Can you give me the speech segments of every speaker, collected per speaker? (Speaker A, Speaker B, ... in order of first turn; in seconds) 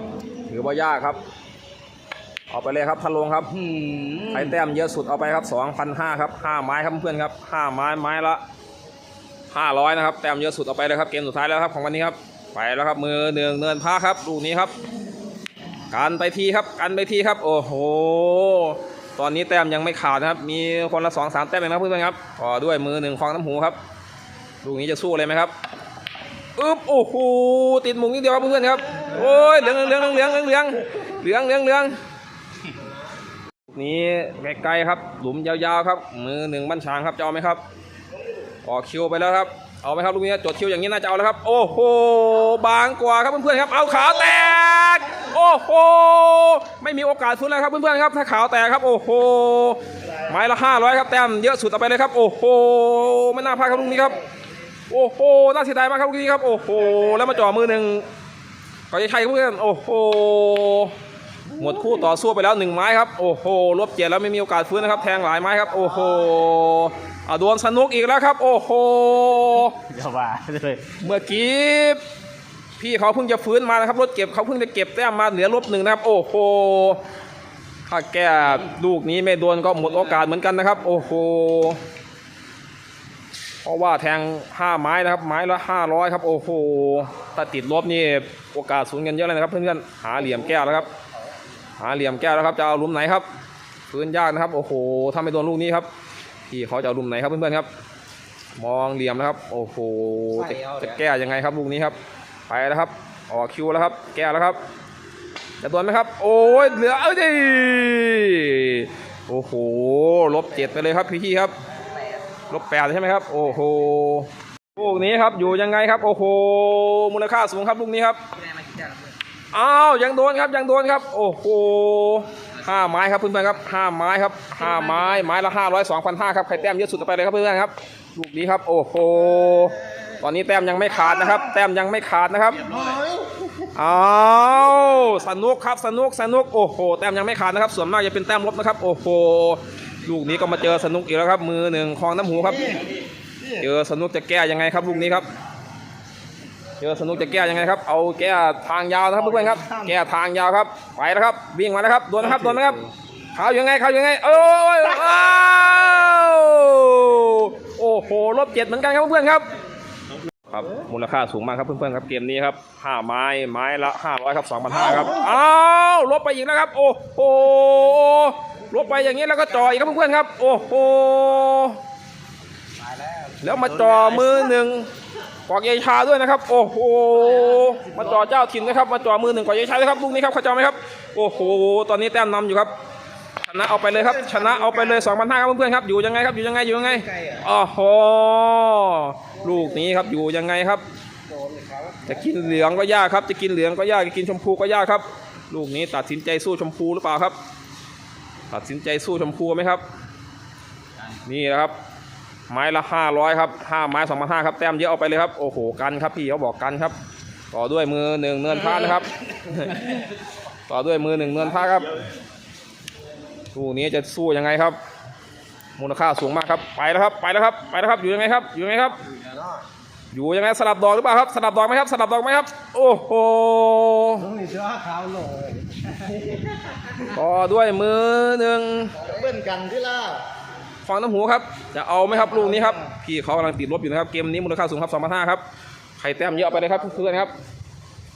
Speaker A: 0.5-1.2, 2.5-3.6, 4.3-8.4, 9.5-14.7, 15.9-23.8, 24.6-25.5, 26.6-32.0, 33.7-37.6, 38.6-54.2, 54.9-58.0, 58.9-60.9, 61.5-69.8, 71.0-72.0, 72.8-77.0, 77.8-81.8, 83.6-90.9, 91.8-93.2, 93.9-95.9, 96.5-97.7, 98.6-102.0, 102.5-104.6, 105.6-111.5, 112.5-118.2, 119.5-132.8, 133.7-142.8, 143.5-145.3, 146.8-159.5, 160.5-171.8, 173.4-174.9, 175.5-182.7, 183.4-190.8, 192.1-197.4, 198.5-199.8, 201.2-201.7, 202.5-206.9, 207.5-210.0, 210.7-211.9, 213.5-214.8, 215.8-219.0, 220.1-224.3, 227.0-229.0, 230.8-235.4, 236.0-237.3
Speaker B: 3.6-4.4, 69.8-70.9, 118.6-118.9, 132.7-133.2, 173.0-173.3, 191.3-192.0, 224.3-225.6, 229.0-230.2